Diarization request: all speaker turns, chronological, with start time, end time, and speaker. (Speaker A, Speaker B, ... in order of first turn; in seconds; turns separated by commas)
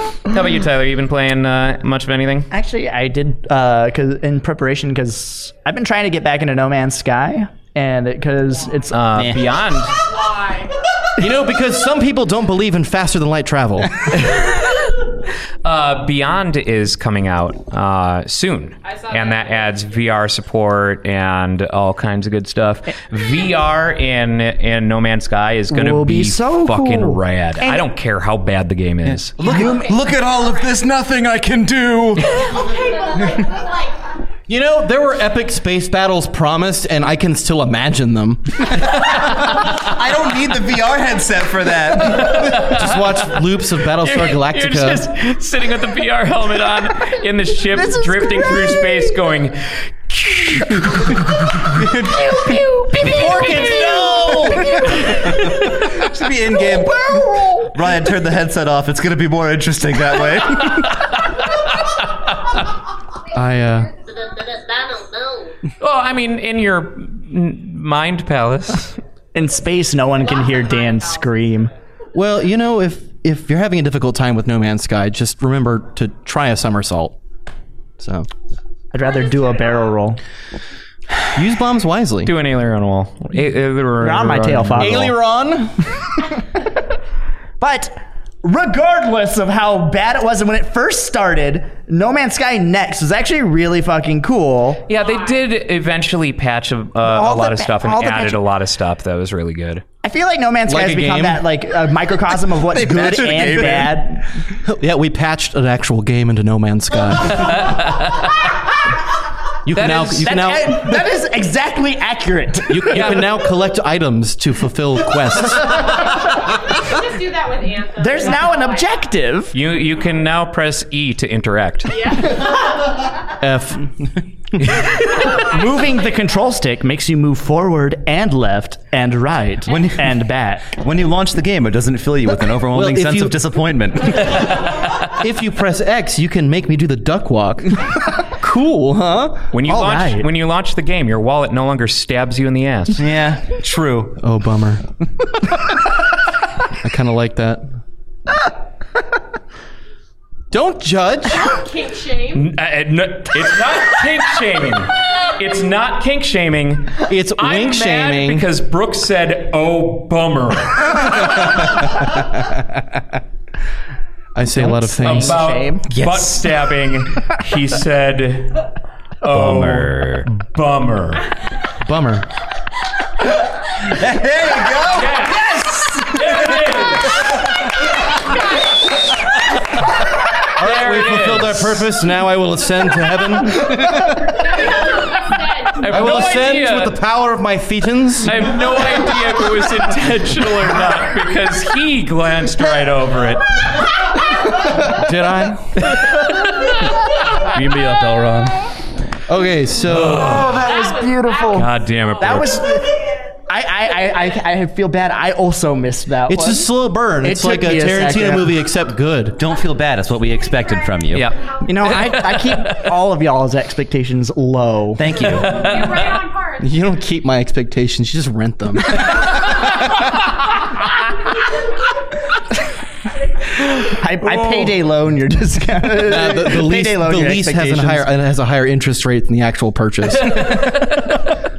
Speaker A: 0.2-2.5, Speaker B: 2.5-9.0, Speaker A: 8.9-10.0, Speaker C: 9.2-9.4, Speaker D: 9.9-10.8, Speaker E: 11.2-14.2, Speaker A: 14.1-14.7, Speaker A: 15.6-29.4, Speaker D: 18.8-20.1, Speaker B: 25.7-27.9, Speaker C: 29.0-32.3, Speaker B: 29.4-29.9, Speaker F: 32.4-33.9, Speaker E: 34.5-38.8, Speaker C: 39.0-42.7, Speaker A: 42.0-43.1, Speaker E: 42.3-45.0, Speaker A: 44.0-51.2, Speaker B: 47.7-49.1, Speaker C: 51.6-55.0, Speaker B: 52.2-55.5, Speaker A: 52.9-53.9, Speaker E: 53.0-54.7, Speaker C: 55.5-61.1, Speaker B: 56.9-57.7, Speaker E: 63.3-63.9, Speaker D: 64.3-65.4, Speaker A: 65.8-69.0, Speaker B: 69.3-71.7, Speaker D: 70.2-71.7, Speaker E: 72.1-77.2, Speaker E: 78.0-78.3, Speaker B: 78.9-80.2, Speaker E: 81.3-82.3, Speaker A: 82.2-85.1, Speaker B: 84.0-85.1, Speaker E: 84.8-85.8, Speaker B: 87.6-94.8, Speaker A: 94.9-99.8, Speaker D: 94.9-95.4, Speaker B: 97.0-98.4, Speaker B: 100.0-104.3, Speaker E: 100.7-101.5, Speaker C: 102.6-104.0, Speaker E: 104.6-107.7, Speaker A: 107.3-108.5, Speaker E: 109.6-111.0, Speaker A: 109.7-110.7, Speaker B: 110.3-113.0, Speaker E: 112.7-115.8, Speaker A: 112.9-113.3, Speaker D: 115.8-119.1, Speaker B: 118.0-119.5, Speaker A: 119.5-122.0, Speaker D: 121.9-122.5, Speaker E: 123.4-123.9, Speaker A: 124.7-125.1, Speaker D: 125.1-126.0, Speaker B: 125.3-130.7, Speaker C: 129.7-130.1, Speaker C: 130.7-134.5, Speaker E: 132.7-133.4, Speaker E: 135.1-139.5, Speaker A: 139.5-143.0, Speaker B: 139.7-140.3, Speaker C: 143.0-144.2, Speaker E: 144.2-144.8, Speaker E: 146.8-147.7, Speaker E: 150.5-151.5, Speaker D: 151.3-152.5, Speaker A: 152.3-161.6, Speaker E: 157.1-158.5, Speaker E: 164.3-165.4, Speaker B: 164.5-165.9, Speaker A: 165.0-168.7, Speaker C: 165.9-166.4, Speaker A: 169.2-171.3, Speaker C: 169.3-170.3, Speaker E: 171.8-172.3, Speaker C: 173.8-176.6, Speaker A: 174.9-177.3, Speaker E: 180.6-184.3, Speaker A: 180.6-181.9, Speaker D: 184.2-186.4, Speaker A: 185.8-187.0, Speaker E: 185.9-188.5, Speaker A: 188.2-193.9, Speaker E: 194.8-195.8, Speaker C: 197.4-198.6, Speaker E: 199.3-200.5, Speaker A: 199.9-200.7, Speaker B: 200.2-201.7, Speaker D: 200.4-202.6, Speaker A: 201.5-202.6, Speaker B: 202.2-202.9, Speaker B: 203.5-206.7, Speaker E: 206.3-209.4, Speaker B: 207.2-208.6, Speaker C: 209.3-211.3, Speaker F: 210.6-211.5, Speaker A: 211.1-212.8, Speaker B: 211.6-215.0, Speaker C: 215.0-215.6, Speaker A: 215.2-216.2, Speaker D: 215.4-216.8, Speaker E: 216.6-219.2, Speaker B: 223.8-228.1, Speaker E: 226.0-230.6, Speaker A: 230.2-231.3